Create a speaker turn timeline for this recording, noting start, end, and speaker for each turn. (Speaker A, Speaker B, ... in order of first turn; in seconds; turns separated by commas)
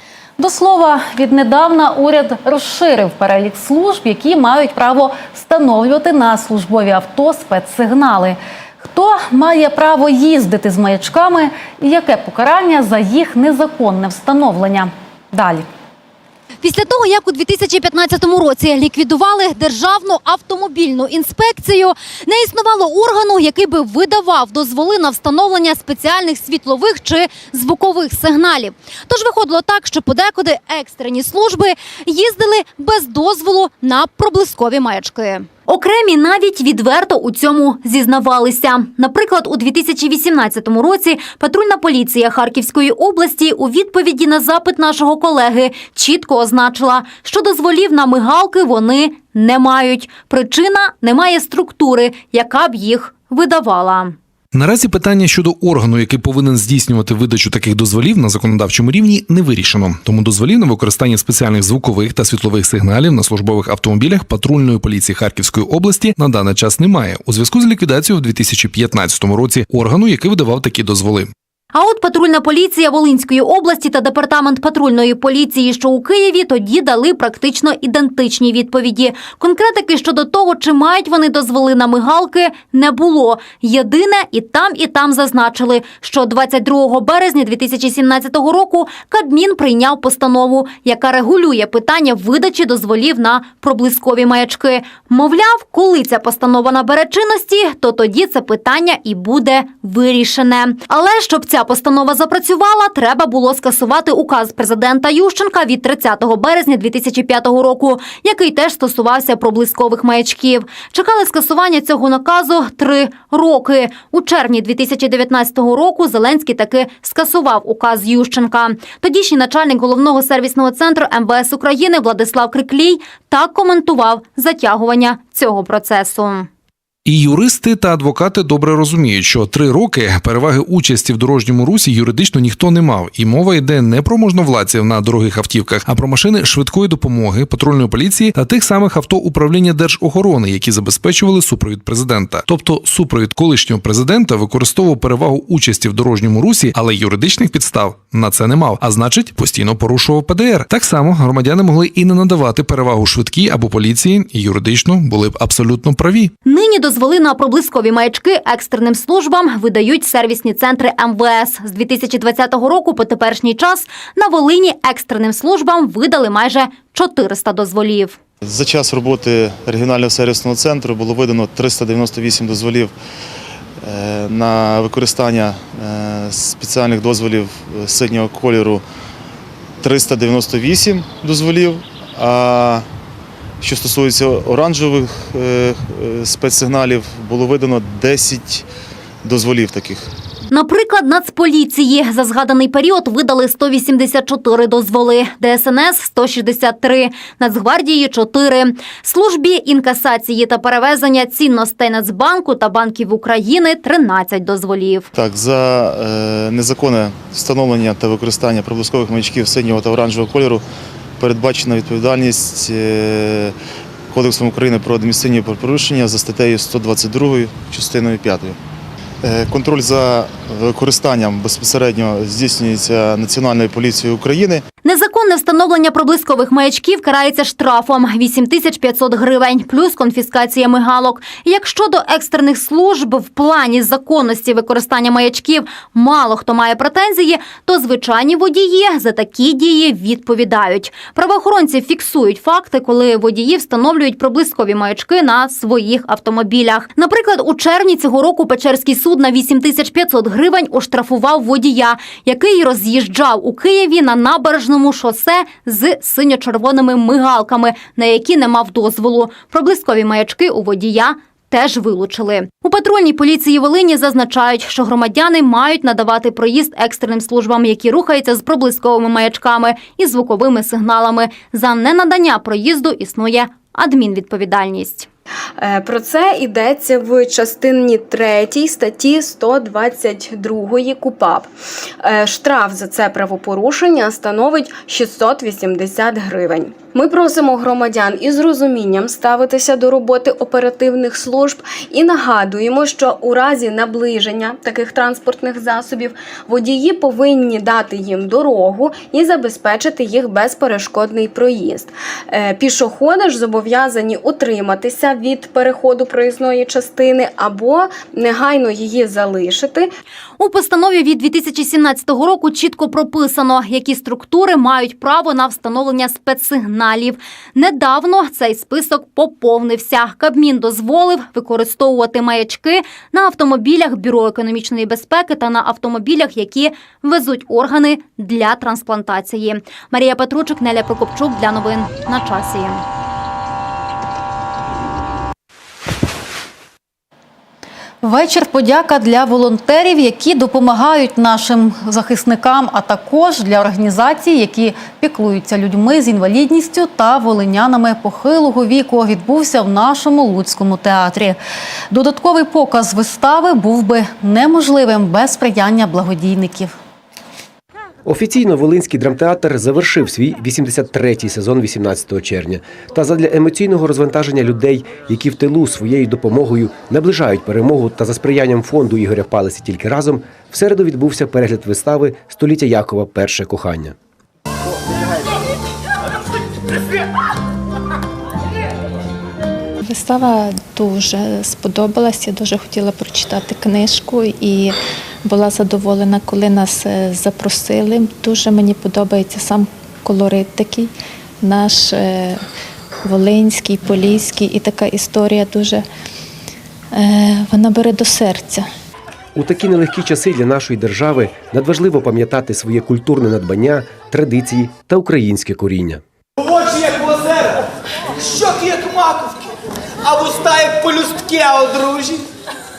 Speaker A: 0.4-15.7, Speaker B: 16.6-54.1, Speaker C: 54.5-71.3, Speaker B: 71.7-126.5, Speaker C: 127.0-156.3, Speaker B: 156.4-168.2, Speaker D: 168.4-172.9, Speaker D: 173.8-178.8, Speaker D: 179.8-182.8, Speaker D: 183.6-188.7, Speaker D: 189.2-190.1, Speaker B: 190.5-205.1, Speaker D: 205.1-210.6, Speaker D: 211.2-213.5, Speaker D: 214.1-218.6, Speaker D: 219.2-224.6, Speaker B: 224.8-275.1, Speaker E: 275.6-281.5, Speaker E: 282.0-309.9, Speaker B: 310.4-332.8, Speaker A: 338.0-351.4, Speaker A: 351.9-356.7, Speaker F: 358.0-373.9, Speaker G: 379.8-392.4, Speaker G: 393.0-395.9, Speaker G: 396.9-398.7, Speaker F: 399.3-406.0, Speaker H: 410.1-412.2